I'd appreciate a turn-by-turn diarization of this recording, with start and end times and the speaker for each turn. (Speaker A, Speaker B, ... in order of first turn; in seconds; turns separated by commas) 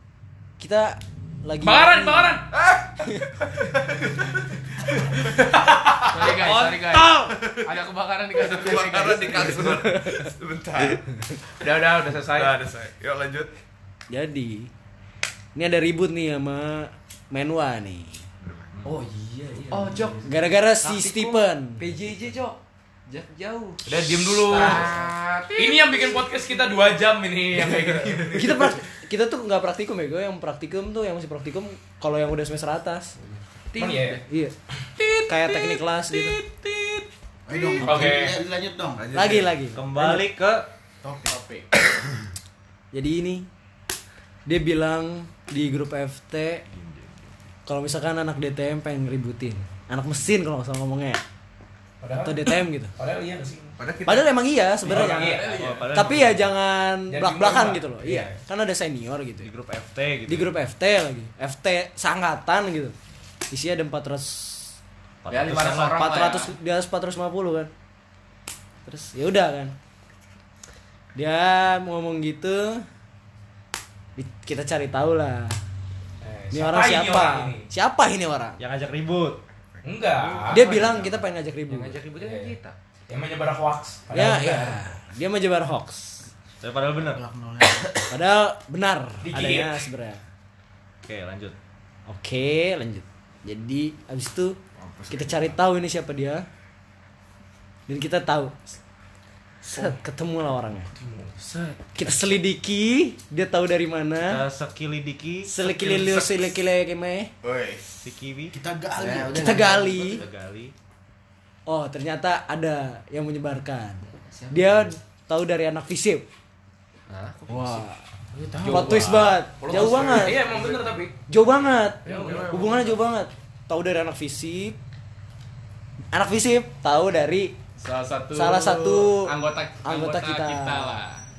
Speaker A: 0.6-2.4, Speaker B: 1.6-2.5, Speaker C: 2.5-7.8, Speaker A: 3.1-3.5, Speaker B: 6.1-6.7, Speaker D: 6.1-9.8, Speaker E: 6.2-7.2, Speaker C: 8.3-11.0, Speaker A: 9.7-10.1, Speaker B: 11.6-12.6, Speaker C: 12.3-13.6, Speaker A: 14.1-14.7, Speaker A: 15.6-18.2, Speaker C: 18.5-18.7, Speaker F: 18.8-25.1, Speaker B: 19.7-20.2, Speaker A: 20.2-21.9, Speaker B: 23.9-24.9, Speaker D: 24.5-25.6, Speaker C: 24.6-26.0, Speaker B: 25.6-28.5, Speaker A: 28.3-33.2, Speaker F: 33.2-34.2, Speaker B: 33.8-34.2, Speaker A: 34.3-34.5, Speaker D: 35.0-37.8, Speaker A: 35.3-36.4, Speaker G: 37.5-39.2, Speaker B: 37.8-38.4, Speaker C: 39.0-39.6, Speaker A: 39.1-40.3, Speaker E: 39.7-40.7, Speaker G: 41.0-41.4, Speaker D: 41.2-41.7, Speaker A: 42.9-43.5, Speaker A: 44.5-46.7, Speaker A: 47.7-51.2, Speaker B: 52.0-53.8, Speaker A: 52.2-52.9, Speaker C: 53.8-54.3, Speaker A: 54.0-59.5, Speaker B: 54.8-55.6, Speaker D: 54.9-56.0, Speaker E: 54.9-56.5, Speaker B: 57.1-58.4, Speaker E: 59.4-60.5, Speaker A: 60.3-63.0, Speaker A: 63.5-64.8, Speaker E: 65.2-66.4, Speaker D: 65.3-66.5, Speaker A: 66.0-67.7, Speaker A: 68.8-69.8, Speaker A: 71.2-72.9, Speaker A: 74.2-75.6, Speaker B: 76.2-77.7, Speaker A: 76.5-78.6, Speaker E: 78.6-79.4, Speaker B: 79.8-80.7, Speaker E: 80.3-81.2, Speaker A: 80.5-82.0, Speaker F: 81.7-82.8, Speaker B: 82.2-82.5, Speaker B: 83.1-84.8, Speaker A: 84.1-86.3, Speaker E: 86.6-87.2, Speaker G: 87.0-88.1, Speaker A: 88.1-90.2, Speaker B: 89.2-89.8, Speaker E: 89.3-89.7, Speaker E: 91.1-91.6, Speaker A: 92.1-94.6, Speaker C: 94.8-95.5, Speaker A: 95.1-96.5, Speaker A: 97.9-98.7, Speaker A: 99.6-100.9, Speaker B: 101.0-101.8, Speaker A: 102.0-104.4, Speaker E: 104.2-105.5, Speaker A: 105.5-107.3, Speaker C: 105.6-106.6, Speaker C: 107.4-108.1, Speaker E: 108.0-108.5, Speaker G: 108.5-110.0, Speaker F: 109.0-110.2, Speaker A: 109.4-110.2, Speaker E: 109.4-110.7, Speaker A: 111.7-116.3, Speaker F: 114.1-115.0, Speaker F: 117.1-119.3, Speaker A: 117.5-118.0, Speaker B: 118.4-121.1, Speaker A: 118.7-120.5, Speaker F: 120.2-120.8, Speaker A: 121.3-124.8, Speaker D: 122.0-123.0, Speaker F: 122.1-122.9, Speaker A: 126.1-127.5, Speaker D: 127.8-131.2, Speaker A: 128.3-129.3, Speaker A: 129.8-131.0